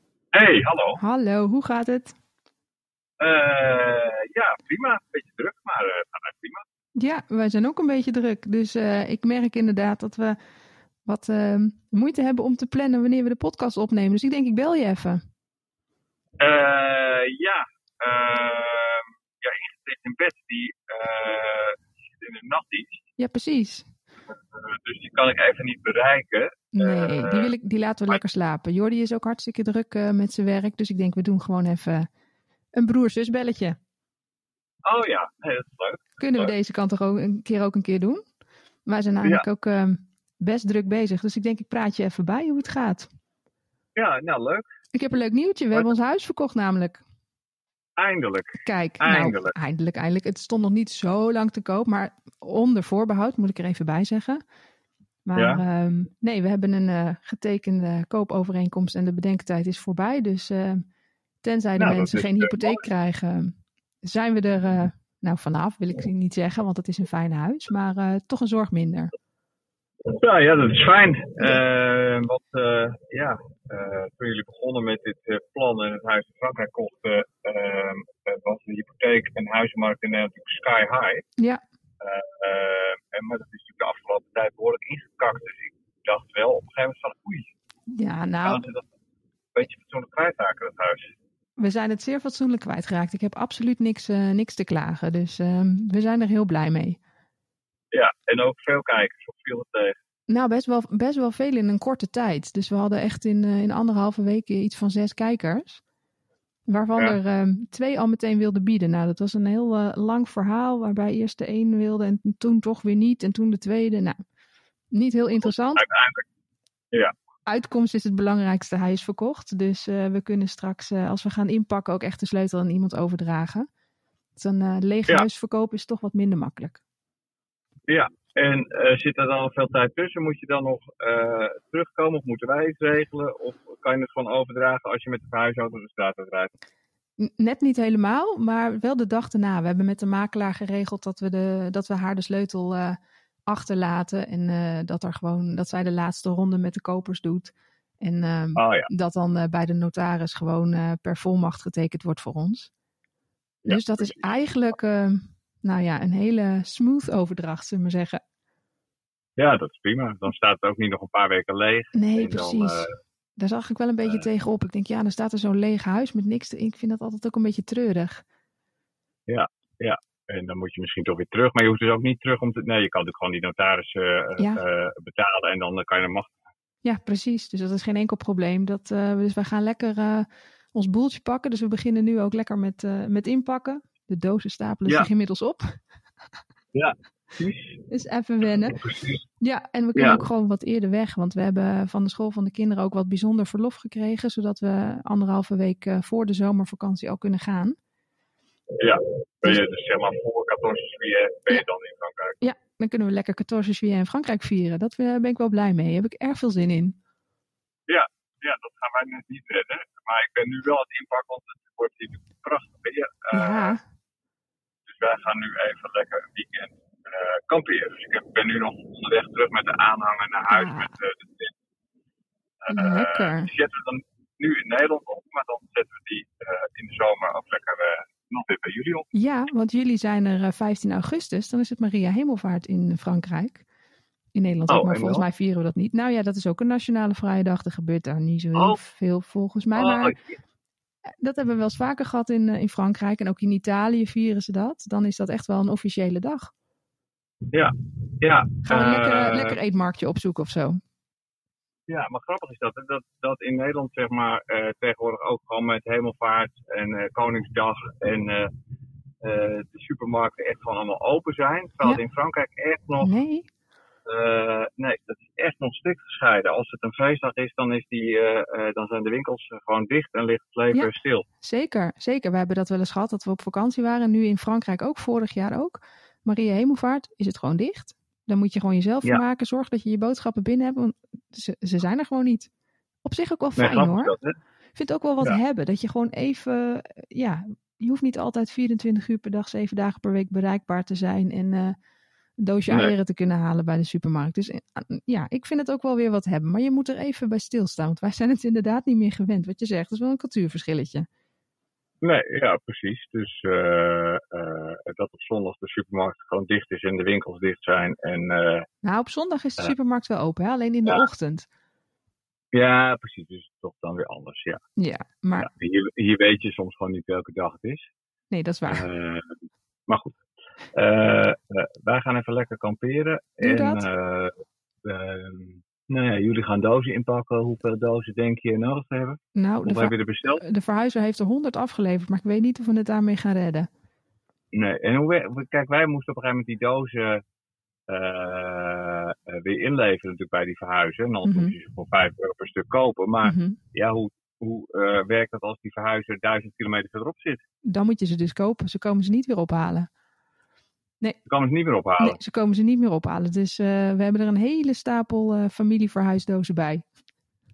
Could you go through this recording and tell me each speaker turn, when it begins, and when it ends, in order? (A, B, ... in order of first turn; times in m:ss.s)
0:00.3-0:01.0 A
0:01.0-0:02.2 B
0:03.2-0:06.6 A
0:07.0-0:10.4 B
0:11.1-0:15.2 B
0:16.4-0:23.0 A
0:23.2-0:23.9 B
0:24.5-0:27.5 A
0:26.7-0:32.1 B
0:32.8-0:33.8 B
0:34.8-0:36.5 A
0:36.2-0:38.2 B
0:38.9-0:43.1 B
0:44.0-0:44.6 A
0:44.9-0:47.0 B
0:48.0-0:49.6 A
0:48.6-0:54.4 B
0:55.3-1:00.8 B
0:55.4-0:55.6 A
1:01.4-1:09.1 B
1:01.8-1:02.8 A
1:10.1-1:21.2 A
1:22.0-1:27.5 A
1:27.9-1:28.6 B
1:28.4-1:28.8 A
1:29.6-1:31.1 A
1:31.6-1:37.0 B
1:37.9-1:40.0 A
1:40.3-1:45.8 B
1:46.7-1:54.2 B
1:54.9-1:55.8 B
1:55.3-1:56.2 A
1:57.5-2:03.7 B
2:04.4-2:06.8 B
2:07.9-2:16.5 A
2:17.2-2:32.7 B
2:28.6-2:28.9 A
2:33.6-2:34.3 A
2:33.7-2:38.2 B
2:39.4-2:42.9 A
2:41.9-2:48.2 B
2:49.3-2:56.3 A
2:56.8-3:05.8 B
3:06.7-3:07.8 A
3:07.9-3:08.8 B
3:08.7-3:09.2 A
3:09.4-3:17.8 B
3:10.0-3:10.2 A
3:18.8-3:22.4 A
3:22.4-3:27.0 B
3:27.9-3:33.8 A
3:33.3-3:33.8 B
3:34.9-3:41.5 A
3:40.5-3:40.9 B
3:42.7-3:49.1 A
3:42.7-3:43.5 B
3:49.1-3:53.6 B
3:54.3-4:00.2 B
3:54.7-3:55.3 A
3:58.6-3:58.8 A
3:59.8-4:00.3 A
4:01.2-4:06.5 B
4:07.5-4:09.6 A
4:08.6-4:10.8 B
4:11.9-4:18.5 A
4:19.2-4:23.1 A
4:23.0-4:23.5 B
4:24.1-4:31.2 A
4:31.4-4:42.5 B
4:43.0-4:44.1 B
4:43.6-4:44.3 A
4:44.8-4:51.8 B
4:52.4-5:01.1 B
5:02.0-5:08.7 A
5:08.8-5:11.5 B
5:12.5-5:14.6 A
5:14.8-5:15.5 B
5:15.4-5:17.9 A
5:18.3-5:18.9 B
5:18.7-5:19.3 A
5:19.9-5:20.2 A
5:20.8-5:24.3 A
5:23.4-5:23.9 B
5:24.8-5:30.4 A
5:29.4-5:33.7 B
5:34.5-5:37.2 A
5:37.9-5:47.4 A
5:41.2-5:41.6 B
5:43.2-5:43.6 B
5:47.7-5:49.9 B
5:51.3-5:52.2 A
5:52.0-5:56.8 B